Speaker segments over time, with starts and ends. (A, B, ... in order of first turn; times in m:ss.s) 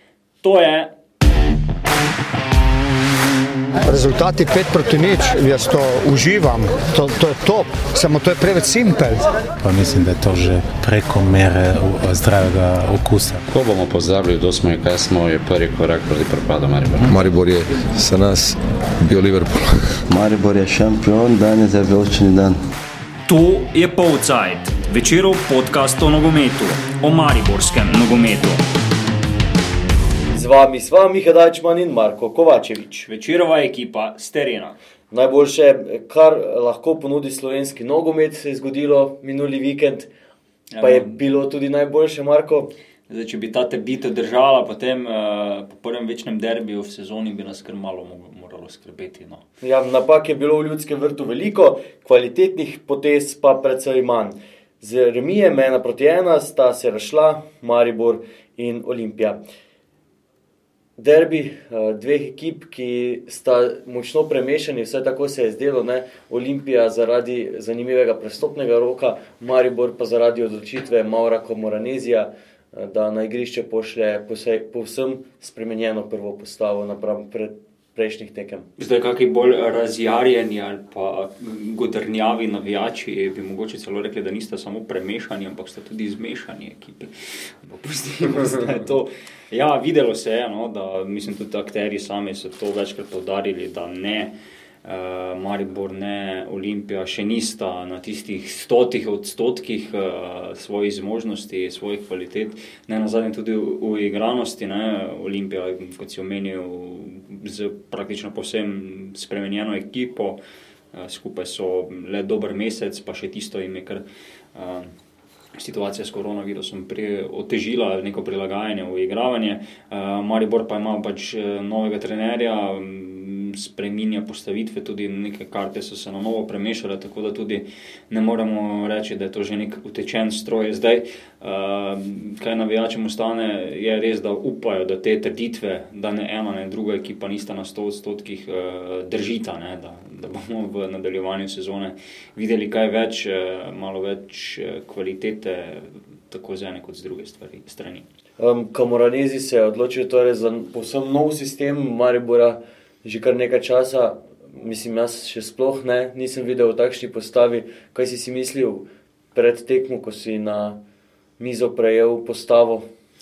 0:00.4-0:00.9 A
0:03.8-0:09.3 B
0:09.6-0:13.4 C
0:13.5-0:17.1 D
0:17.0-0:20.0 E
0:20.1-0:22.6 F
0:23.3-0:28.6 A
0:30.3-0:33.1 G
0:33.0-0:34.8 A
0:35.1-0:40.1 G
0:40.7-0:41.2 A
0:40.8-0:42.7 G
0:43.1-0:49.4 A
0:49.6-0:59.4 G
1:01.0-1:18.7 G
1:18.8-1:27.1 A
1:27.6-1:34.3 A
1:34.8-1:50.4 A
1:50.9-1:54.0 A
1:54.6-1:54.9 A
1:55.6-2:28.0 A
2:28.4-2:40.8 G
2:41.4-2:42.9 G